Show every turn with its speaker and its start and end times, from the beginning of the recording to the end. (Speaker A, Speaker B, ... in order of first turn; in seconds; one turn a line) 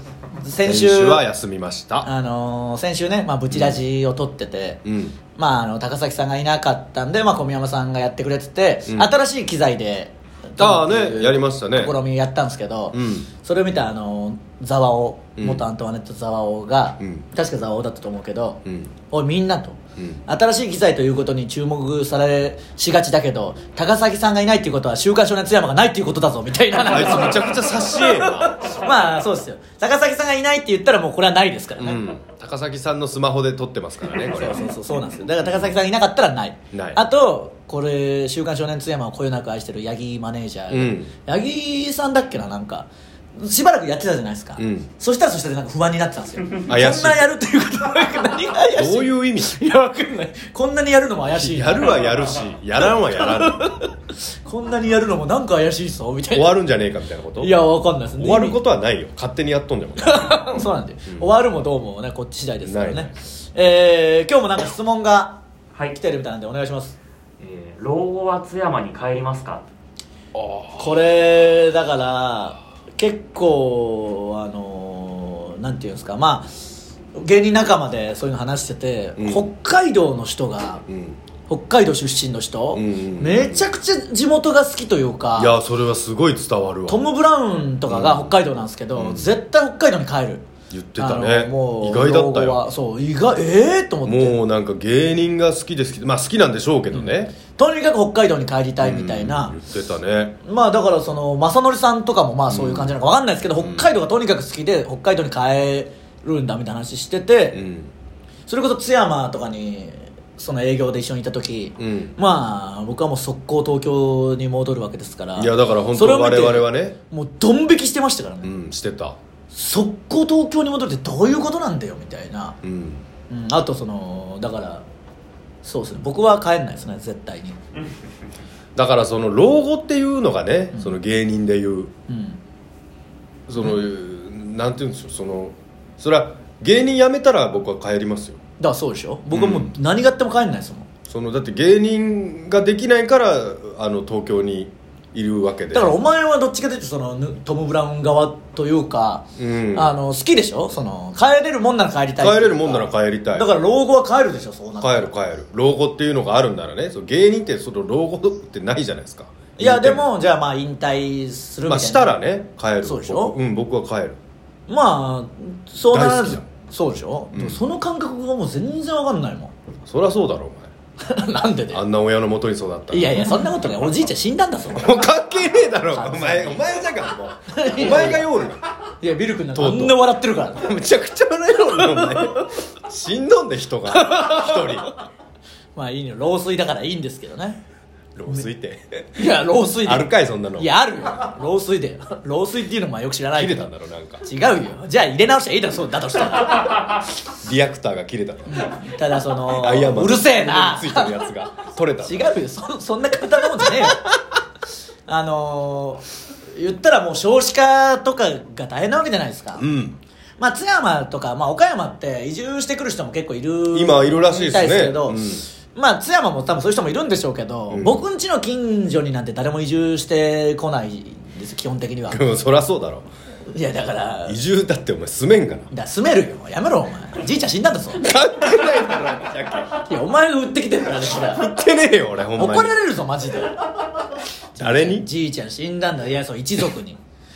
Speaker A: 0.4-1.2
Speaker B: 0.6-2.1
Speaker A: 2.0-4.8
Speaker B: 3.5-3.8
Speaker B: 4.8-5.2
Speaker A: 5.3-32.1
Speaker B: 8.9-9.1
Speaker B: 10.6-11.9
Speaker B: 12.9-13.3
Speaker B: 15.4-15.7
Speaker B: 17.0-17.2
Speaker B: 18.7-18.9
Speaker B: 26.8-28.7
Speaker B: 31.8-34.7
Speaker A: 34.2-52.2
Speaker B: 35.4-35.8
Speaker B: 36.7-37.0
Speaker B: 40.7-41.1
Speaker B: 44.6-44.9
Speaker B: 46.7-47.3
Speaker B: 48.8-49.5
Speaker B: 51.3-53.8
Speaker A: 53.1-53.9
Speaker A: 54.4-56.6
Speaker B: 56.3-57.6
Speaker A: 57.4-58.6
Speaker B: 58.2-61.4
Speaker A: 60.0-67.0
Speaker B: 62.6-63.1
Speaker C: 67.4-69.7
Speaker B: 70.3-71.0
Speaker A: 70.8-76.6
Speaker A: 77.2-80.8
Speaker B: 79.2-79.5
Speaker B: 80.9-81.2
Speaker A: 81.5-85.5
Speaker B: 82.7-83.7
Speaker B: 85.4-87.1
Speaker A: 86.9-90.5
Speaker B: 87.9-88.4
Speaker B: 89.0-89.3
Speaker B: 90.7-92.6
Speaker A: 91.0-94.4
Speaker B: 94.1-97.4
Speaker A: 96.9-99.5
Speaker B: 98.8-100.4
Speaker A: 100.4-107.6
Speaker B: 102.5-103.0
Speaker B: 103.6-103.9
Speaker B: 107.5-107.9
Speaker A: 108.5-118.5
Speaker B: 111.8-112.2
Speaker B: 115.4-117.0
Speaker B: 118.4-119.2
Speaker A: 119.5-122.6
Speaker B: 122.6-123.0
Speaker A: 123.3-124.8
Speaker A: 125.6-127.6
Speaker B: 128.8-131.9
Speaker A: 132.1-132.4
Speaker B: 133.5-138.4
Speaker A: 138.6-140.9
Speaker B: 139.3-139.8
Speaker B: 141.1-146.0
Speaker A: 145.7-155.1
Speaker B: 149.4-149.9
Speaker B: 152.2-153.5
Speaker B: 154.8-160.1
Speaker A: 159.6-162.2
Speaker B: 161.7-164.2
Speaker A: 162.8-163.4
Speaker A: 164.7-169.5
Speaker B: 165.9-166.4
Speaker B: 167.3-167.6
Speaker B: 169.9-170.7
Speaker A: 171.0-171.8
Speaker B: 171.7-173.3
Speaker A: 172.9-175.1
Speaker B: 174.7-178.6
Speaker A: 175.9-176.7
Speaker A: 177.5-178.3
Speaker A: 179.0-180.8
Speaker B: 179.5-184.9
Speaker A: 181.6-182.6
Speaker A: 183.9-184.9
Speaker A: 185.8-187.6
Speaker B: 188.2-189.3
Speaker A: 189.2-193.7
Speaker B: 189.8-190.7
Speaker B: 193.3-194.2
Speaker A: 194.2-197.0
Speaker B: 197.4-198.7
Speaker A: 198.5-201.2
Speaker B: 199.5-202.3
Speaker A: 202.0-204.1
Speaker B: 203.6-204.2
Speaker A: 205.1-209.7
Speaker B: 209.6-210.0
Speaker A: 210.4-222.2
Speaker B: 213.7-215.5
Speaker B: 217.7-218.0
Speaker B: 222.1-223.1
Speaker A: 223.5-224.4
Speaker B: 224.3-225.7
Speaker A: 225.7-228.0
Speaker B: 228.0-229.8
Speaker A: 229.8-231.5
Speaker B: 231.2-232.8
Speaker A: 232.4-233.7
Speaker A: 234.6-237.0
Speaker B: 234.6-235.1